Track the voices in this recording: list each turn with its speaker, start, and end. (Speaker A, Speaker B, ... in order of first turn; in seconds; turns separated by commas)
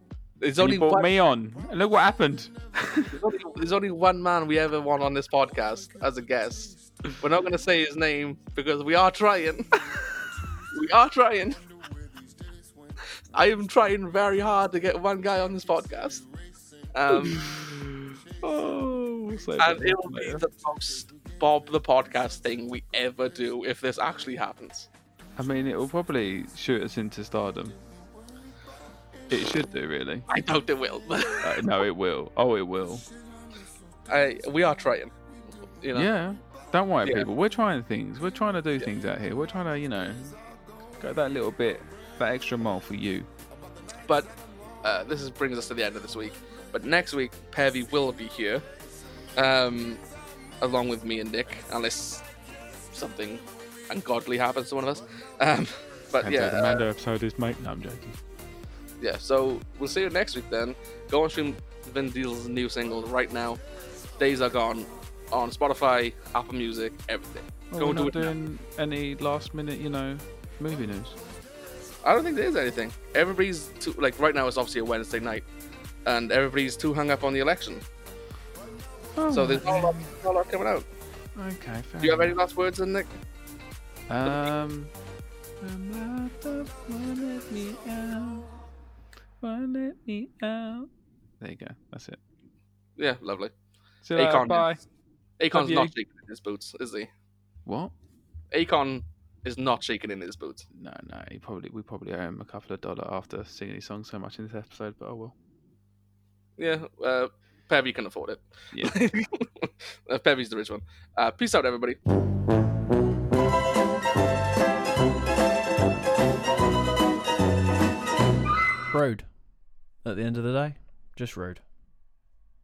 Speaker A: 0.4-1.1, Speaker B: 0.6-3.1, Speaker A: 3.1-9.8, Speaker A: 10.7-11.6, Speaker A: 13.3-16.2, Speaker A: 16.9-17.4, Speaker B: 17.1-20.4, Speaker A: 19.6-24.9, Speaker B: 25.4-27.8, Speaker B: 29.3-30.3, Speaker A: 30.3-31.7, Speaker B: 31.4-33.0, Speaker A: 34.1-35.1, Speaker A: 35.8-36.1, Speaker B: 35.9-40.4, Speaker B: 41.0-43.3, Speaker A: 44.1-48.6, Speaker A: 49.4-50.0, Speaker A: 50.6-52.2, Speaker A: 52.9-56.8, Speaker B: 56.2-58.2, Speaker A: 59.0-63.6, Speaker A: 64.2-68.3, Speaker B: 67.7-71.2, Speaker A: 72.0-75.5, Speaker A: 76.0-77.8, Speaker B: 79.2-80.1, Speaker A: 79.3-80.9, Speaker B: 81.3-82.3, Speaker A: 82.0-83.1, Speaker B: 84.1-84.9, Speaker B: 85.6-88.5, Speaker B: 89.4-90.9, Speaker B: 91.4-92.2, Speaker A: 93.0-93.5, Speaker B: 94.0-94.8, Speaker A: 94.1-94.7, Speaker A: 95.4-97.1, Speaker B: 95.5-95.9, Speaker B: 97.7-97.9, Speaker A: 98.5-100.7, Speaker B: 100.7-105.3, Speaker A: 106.6-112.0, Speaker B: 108.7-109.0, Speaker C: 118.9-119.4, Speaker C: 119.9-121.6